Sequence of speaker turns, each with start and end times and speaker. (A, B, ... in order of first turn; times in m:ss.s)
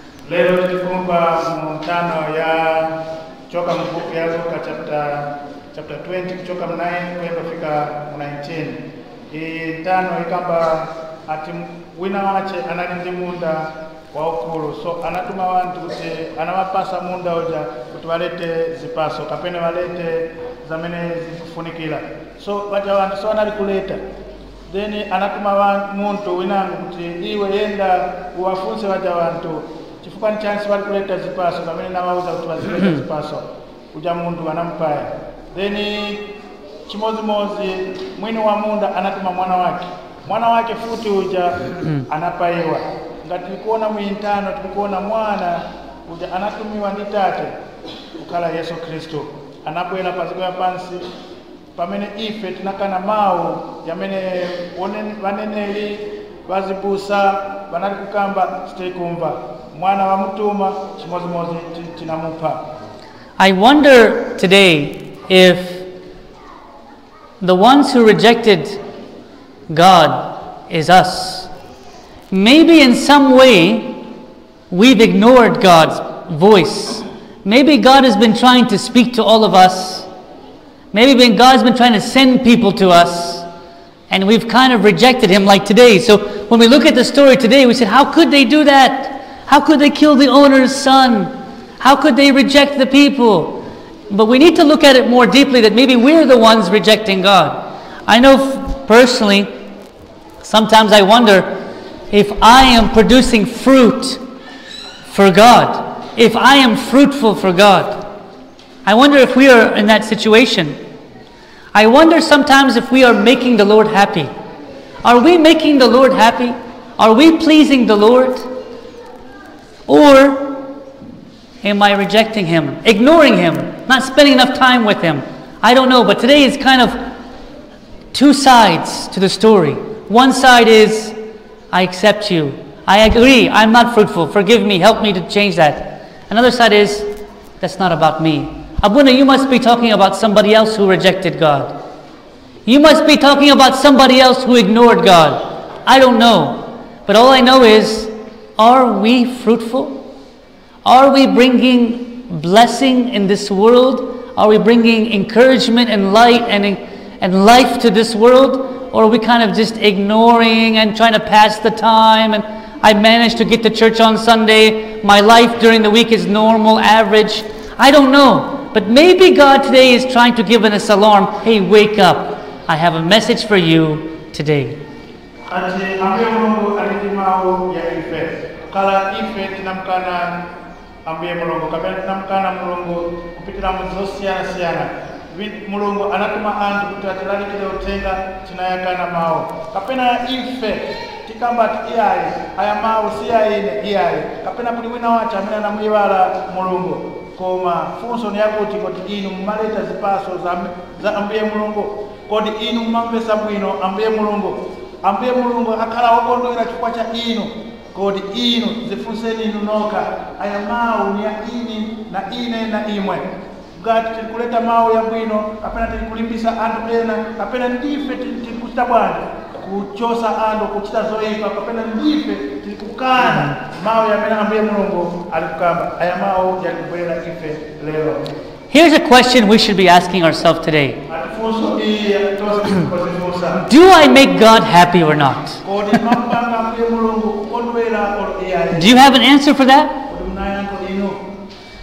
0:00.3-0:24.0 A
0:24.7-0:36.3 A
0:36.9-0:47.5 A
0:41.8-0:42.1 B
0:48.2-0:51.0 A
0:51.8-1:02.6 A
1:03.4-1:05.9 B
1:07.4-1:08.8 B
1:09.7-1:11.5 B
1:12.3-1:14.0 B
1:14.7-1:20.1 B
1:20.9-1:23.5 B
1:24.1-1:39.5 B
1:40.4-1:41.6 B
1:42.1-1:44.2 B
1:45.1-1:48.1 B
1:48.8-1:50.8 B
1:51.7-1:54.3 B
1:55.0-1:58.5 B
1:59.9-2:00.6 B
2:01.6-2:07.0 B
2:08.1-2:11.2 B
2:11.7-2:17.1 B
2:17.6-2:21.8 B
2:22.6-2:30.0 B
2:30.8-2:54.8 B
2:55.5-3:00.5 A
3:01.0-3:33.2 A
3:33.8-3:48.3 A
3:48.7-3:51.0 B
3:51.1-3:53.6 A
3:53.6-3:55.6 B
3:55.6-3:59.0 A
3:58.7-4:00.0 B
4:00.1-4:01.2 A